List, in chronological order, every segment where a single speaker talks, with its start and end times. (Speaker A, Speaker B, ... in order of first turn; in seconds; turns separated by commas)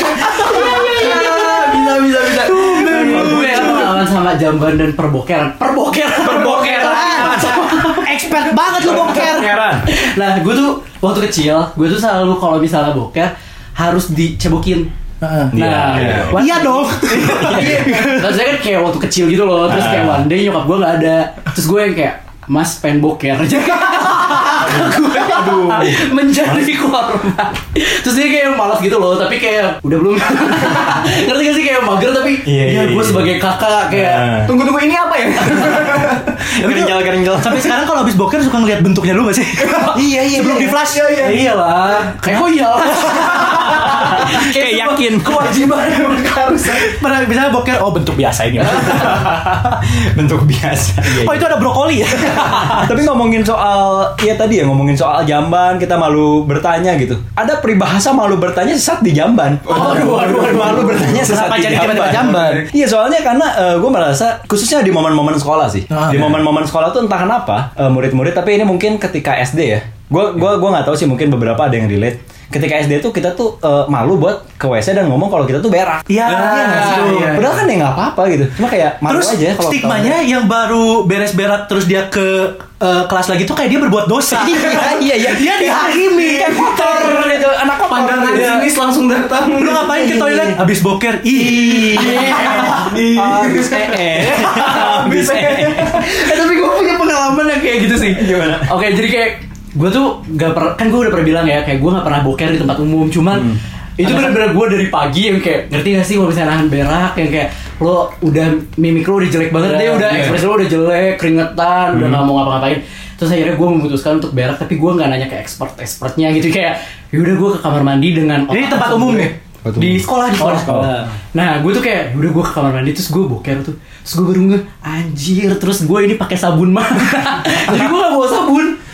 Speaker A: 0.4-3.9, Speaker B: 0.5-8.1, Speaker C: 2.5-4.0, Speaker D: 6.2-8.1, Speaker C: 6.8-9.5, Speaker D: 8.6-9.9, Speaker B: 9.9-14.9, Speaker C: 15.2-15.6, Speaker B: 15.5-34.3, Speaker D: 15.5-18.0, Speaker C: 16.2-18.5, Speaker D: 19.7-20.2, Speaker D: 24.4-26.7, Speaker D: 32.4-33.4, Speaker D: 33.9-34.5, Speaker A: 34.5-36.4, Speaker D: 35.5-35.9, Speaker D: 36.5-37.8, Speaker C: 36.6-44.2, Speaker D: 39.9-40.8, Speaker A: 40.8-41.4, Speaker B: 41.9-46.9, Speaker D: 43.9-45.5, Speaker C: 46.6-49.4, Speaker D: 48.8-51.5, Speaker C: 51.1-53.0, Speaker D: 52.3-80.2, Speaker B: 59.7-61.3, Speaker C: 61.1-62.7, Speaker A: 62.1-62.5, Speaker C: 65.9-66.4, Speaker C: 76.1-77.5, Speaker A: 76.3-77.5, Speaker C: 79.1-87.1, Speaker D: 84.3-88.7, Speaker A: 86.8-87.3, Speaker A: 87.9-90.5, Speaker C: 89.6-92.0, Speaker D: 91.3-96.4, Speaker B: 92.0-92.7, Speaker A: 92.0-96.4, Speaker B: 95.9-128.8, Speaker D: 98.0-98.7, Speaker C: 104.0-104.5, Speaker C: 109.7-110.3, Speaker D: 111.9-112.2, Speaker C: 118.5-119.3, Speaker D: 119.6-120.1, Speaker C: 120.4-121.1, Speaker D: 120.6-120.8